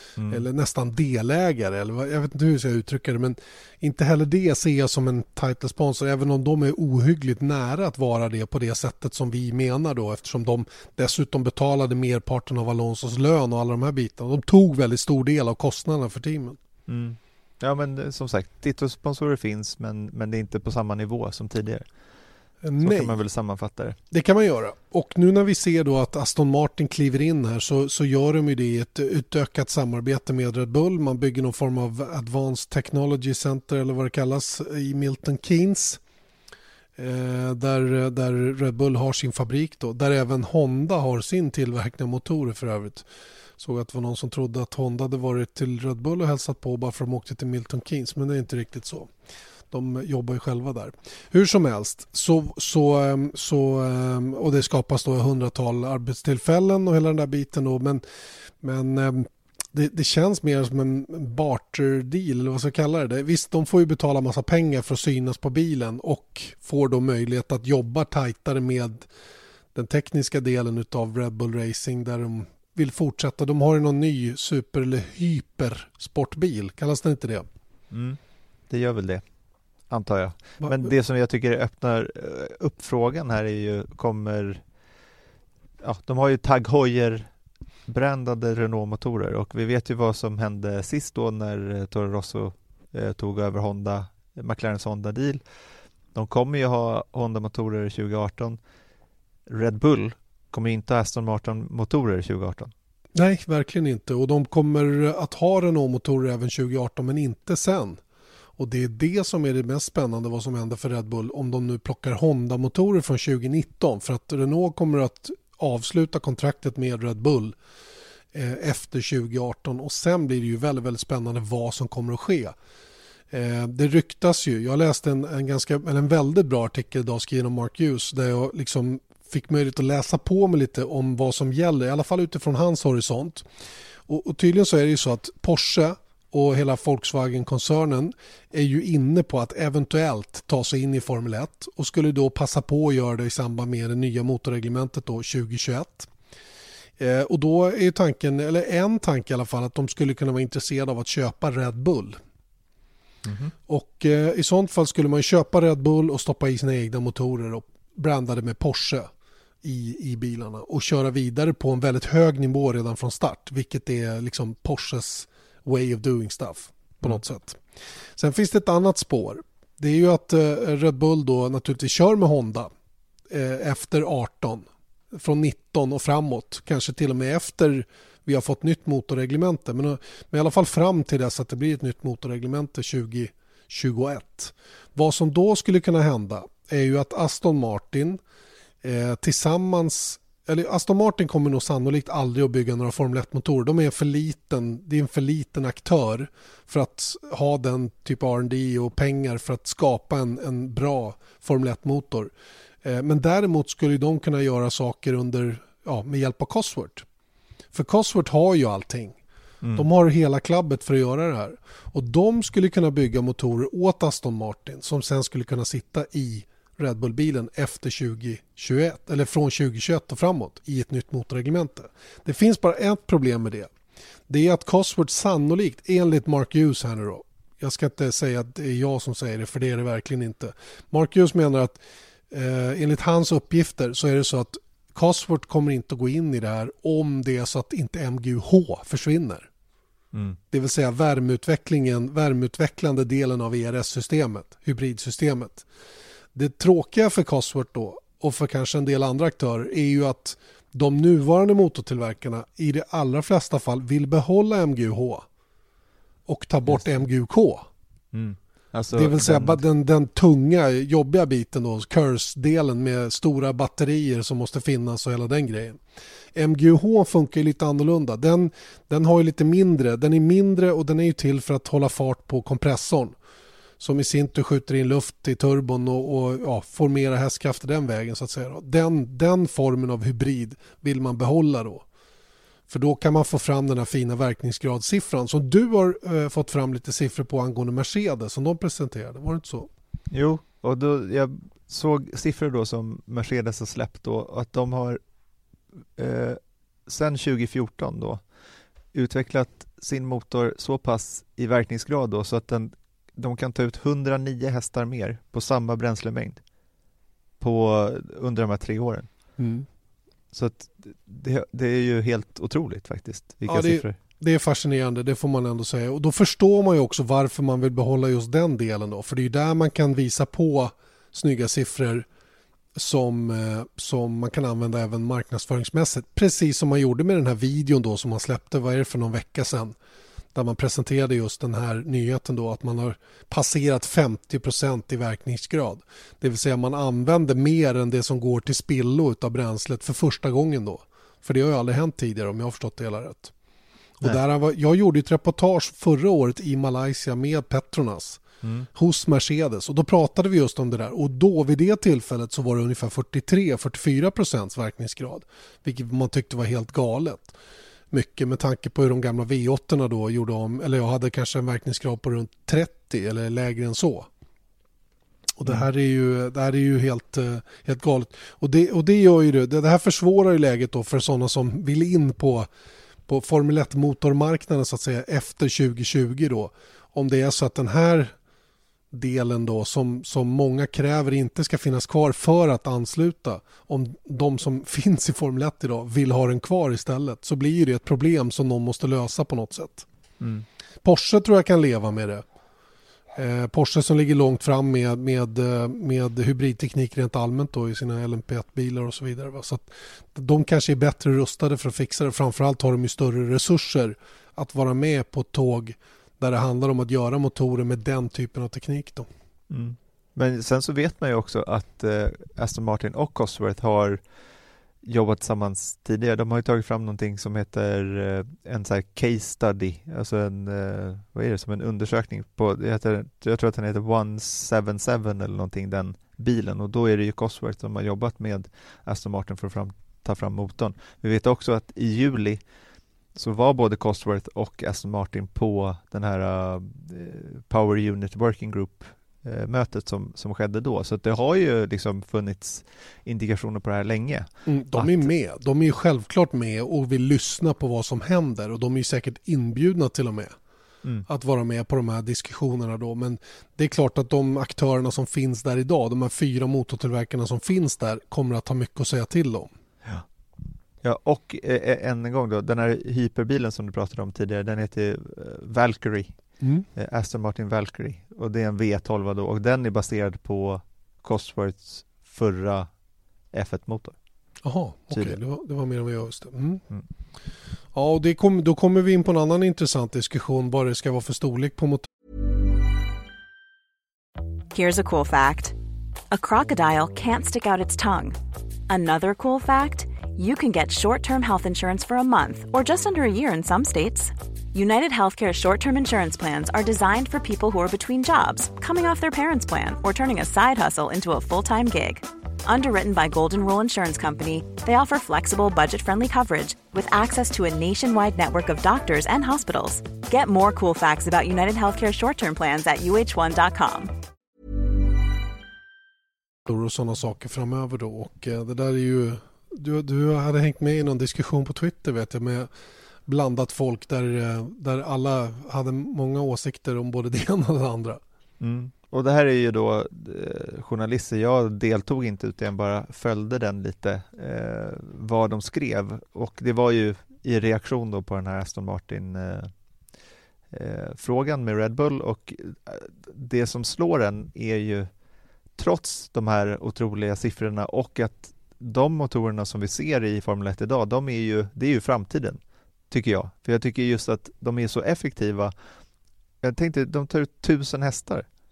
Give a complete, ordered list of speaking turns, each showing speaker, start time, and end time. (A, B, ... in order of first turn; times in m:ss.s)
0:00.2-0:00.4 A
0:00.3-0:16.6 B
0:16.9-0:21.9 A
0:22.6-0:23.2 B
0:22.8-0:24.0 A
0:24.1-0:36.0 B
0:37.0-0:43.1 B
0:43.6-0:49.1 B
0:49.7-0:58.0 B
0:58.6-1:09.1 B
1:09.7-1:17.5 B
1:17.9-1:19.2 A
1:19.9-1:24.6 A
1:20.6-1:20.9 B
1:25.8-1:27.3 A
1:27.9-1:35.4 A
1:36.1-1:38.6 A
1:39.5-1:42.7 A
1:43.2-1:48.0 B
1:48.6-1:57.6 B
1:58.3-2:02.6 B
2:03.3-2:13.5 B
2:14.1-2:26.1 B
2:27.0-2:32.2 B
2:33.2-2:33.5 A
2:33.7-2:39.1 B
2:39.6-2:47.6 B
2:48.2-2:52.7 B
2:53.3-3:08.2 B
3:08.8-3:27.1 B
3:27.7-3:29.2 B
3:29.8-3:43.7 B
3:44.3-3:59.5 B
4:00.1-4:00.4 A
4:00.5-4:05.7 B
4:06.3-4:15.3 B
4:16.3-4:17.7 B
4:18.1-4:19.6 A
4:18.9-4:25.8 B
4:26.3-4:33.2 B
4:33.8-4:41.8 B
4:42.7-4:49.7 B
4:50.1-4:55.0 A
4:56.0-4:58.2 A
4:58.9-5:06.4 A
5:07.4-5:09.1 A
5:09.4-5:09.7 B
5:10.3-5:14.0 A
5:13.5-5:22.1 B
5:22.8-5:29.8 B
5:30.3-5:43.3 B
5:44.0-5:48.2 B
5:48.8-5:57.4 B
5:57.9-6:04.1 B
6:05.4-6:12.5 B
6:13.1-6:18.2 B
6:18.9-6:29.9 B
6:30.8-6:32.2 B
6:33.2-6:49.1 B
6:49.5-6:54.0 A
6:54.8-7:12.4 A
7:13.2-7:25.1 A
7:24.5-7:30.4 B
7:31.1-7:39.5 B
7:40.8-7:46.2 A
7:46.4-7:46.7 B
7:46.8-7:52.7 A
7:53.3-7:54.0 A
7:54.4-7:56.6 B
7:57.7-8:01.9 B
8:04.5-8:05.6 C
8:06.1-8:08.2 C
8:08.7-8:33.9 C
8:36.5-8:42.5 B
8:43.1-8:48.0 B
8:48.4-8:59.5 A
9:00.5-9:04.9 A
9:05.6-9:12.4 A
9:12.9-9:15.5 A
9:16.4-9:18.3 A